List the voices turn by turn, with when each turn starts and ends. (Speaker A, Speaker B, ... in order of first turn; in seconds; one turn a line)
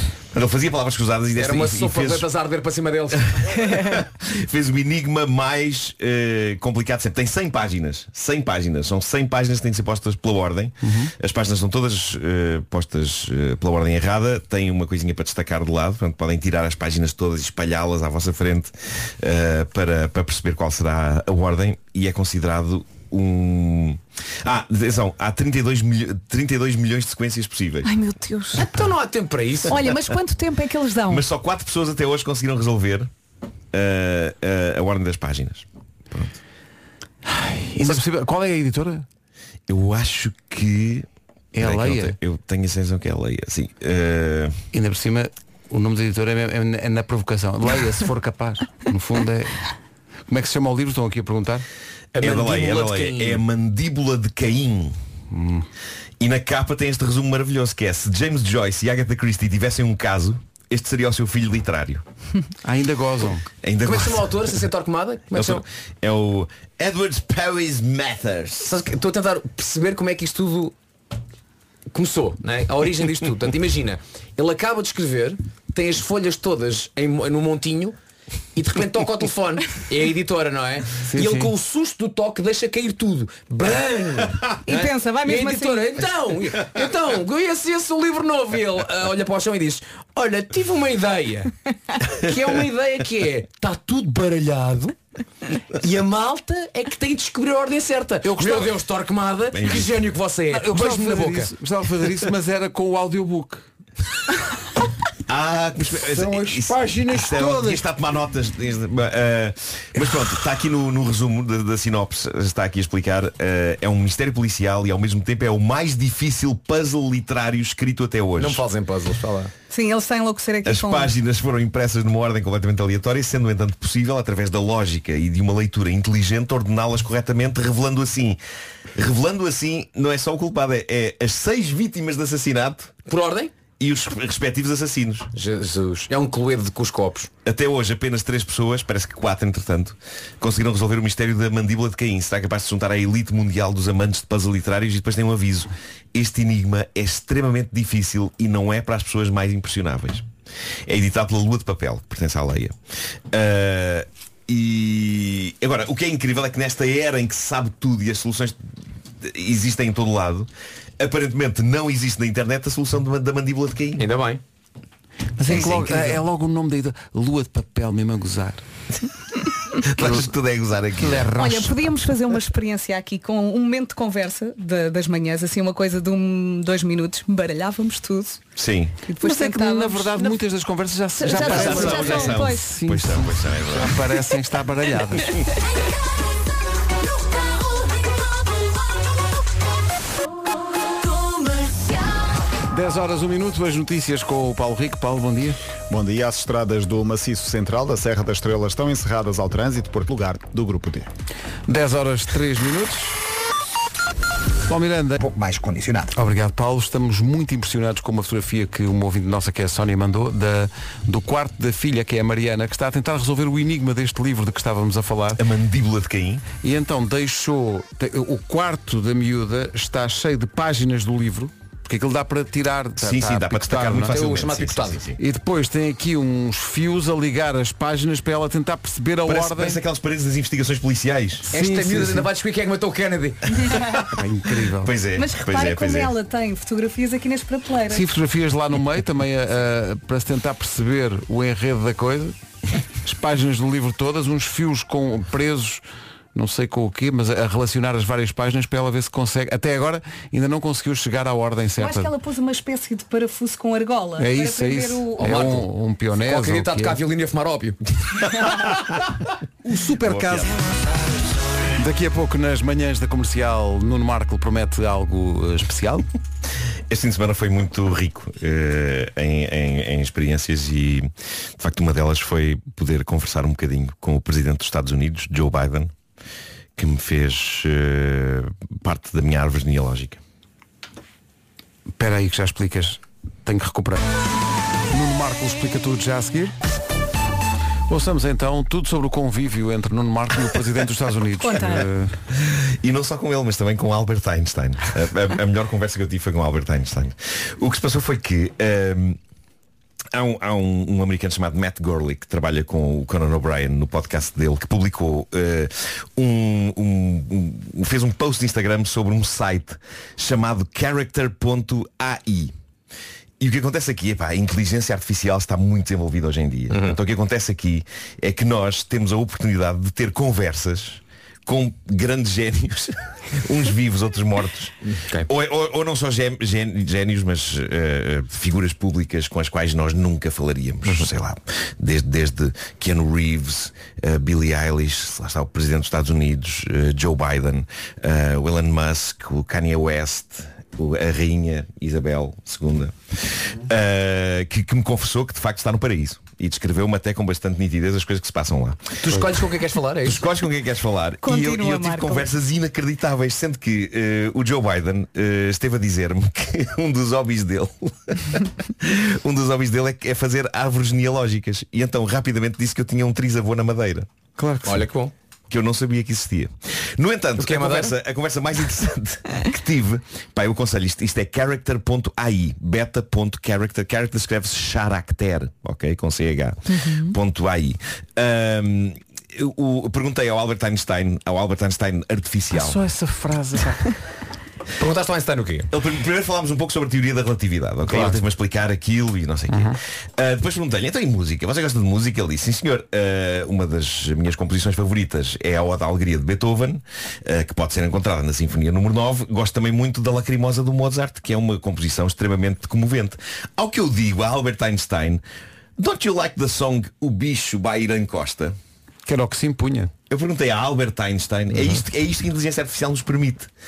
Speaker A: 0.3-2.3
Speaker B: 1.4-3.5
Speaker A: 3.4-27.9
Speaker C: 10.8-11.1
Speaker D: 27.8-28.6
Speaker B: 28.6-29.8
Speaker D: 29.7-31.2
Speaker A: 29.7-30.0
Speaker A: 31.1-33.1
Speaker A: 33.7-36.4
Speaker C: 37.3-39.1
Speaker A: 39.7-41.1
Speaker C: 41.5-42.2
Speaker A: 41.6-44.6
Speaker C: 44.7-49.6
Speaker C: 50.3-51.6
Speaker B: 52.1-53.4
Speaker A: 52.2-55.0
Speaker C: 55.3-55.7
Speaker A: 56.2-62.0
Speaker C: 62.6-63.5
Speaker A: 63.6-64.5
Speaker B: 63.8-65.6
Speaker A: 65.3-68.7
Speaker B: 68.6-70.8
Speaker B: 71.9-78.0
Speaker B: 78.5-95.0
Speaker C: 81.1-81.5
Speaker D: 84.7-86.0
Speaker B: 95.8-101.5
Speaker C: 98.2-98.7
Speaker A: 99.5-100.0
Speaker C: 100.5-103.7
Speaker A: 105.3-118.6
Speaker C: 106.1-107.8
Speaker B: 118.4-119.5
Speaker D: 119.7-121.1
Speaker A: 120.7-128.4
Speaker A: 129.0-132.9
Speaker B: 133.1-133.5
Speaker A: 133.8-135.3
Speaker B: 135.3-137.3
Speaker A: 137.4-150.3
Speaker A: 150.9-152.8
Speaker A: 153.3-158.6
Speaker A: 159.2-164.1
Speaker B: 164.0-164.4
Speaker C: 165.4-168.6
Speaker A: 165.5-166.2
Speaker A: 169.8-171.3
Speaker C: 169.9-170.3
Speaker C: 171.0-171.8
Speaker D: 171.4-178.4
Speaker A: 178.6-178.9
Speaker D: 179.1-180.4
Speaker C: 179.2-185.5
Speaker D: 181.2-182.7
Speaker A: 181.2-184.0
Speaker C: 192.7-195.6
Speaker E: 195.9-201.1
Speaker C: 201.7-203.2
Speaker C: 204.7-205.2
Speaker E: 205.2-206.1
Speaker C: 206.1-215.4
Speaker A: 215.4-216.5
Speaker C: 216.6-224.2
Speaker A: 223.0-225.2
Speaker B: 224.1-225.0
Speaker C: 225.2-229.8
Speaker A: 229.3-231.5
Speaker C: 231.5-232.3
Speaker B: 231.5-233.6
Speaker A: 233.7-234.2
Speaker C: 234.1-234.9
Speaker A: 234.8-236.2
Speaker D: 235.2-238.1
Speaker C: 237.9-242.4
Speaker C: 243.0-245.8
Speaker C: 246.3-252.1
Speaker D: 251.8-255.4
Speaker C: 254.2-257.0
Speaker B: 255.2-255.7
Speaker B: 256.2-258.3
Speaker C: 259.6-260.8
Speaker A: 260.0-260.6
Speaker C: 261.8-266.1
Speaker A: 266.9-275.9
Speaker A: 276.8-280.2
Speaker C: 282.0-284.1
Speaker C: 284.9-286.6
Speaker C: 287.9-292.2
Speaker D: 291.4-291.9
Speaker A: 292.5-299.2
Speaker A: 300.1-312.5
Speaker A: 313.4-324.8
Speaker B: 316.7-317.0
Speaker B: 324.9-325.3
Speaker A: 325.3-349.3
Speaker B: 349.0-350.3
Speaker A: 350.1-364.1
Speaker D: 351.2-352.3
Speaker C: 364.4-364.9
Speaker B: 364.6-365.1
Speaker A: 365.5-382.8
Speaker B: 367.4-367.9
Speaker D: 376.7-377.1
Speaker C: 382.5-384.0
Speaker B: 384.8-385.7
Speaker A: 385.7-405.2
Speaker C: 387.9-388.2
Speaker C: 389.5-389.8
Speaker A: 405.8-408.6
Speaker C: 409.1-409.9
Speaker A: 410.1-413.5
Speaker C: 411.5-411.8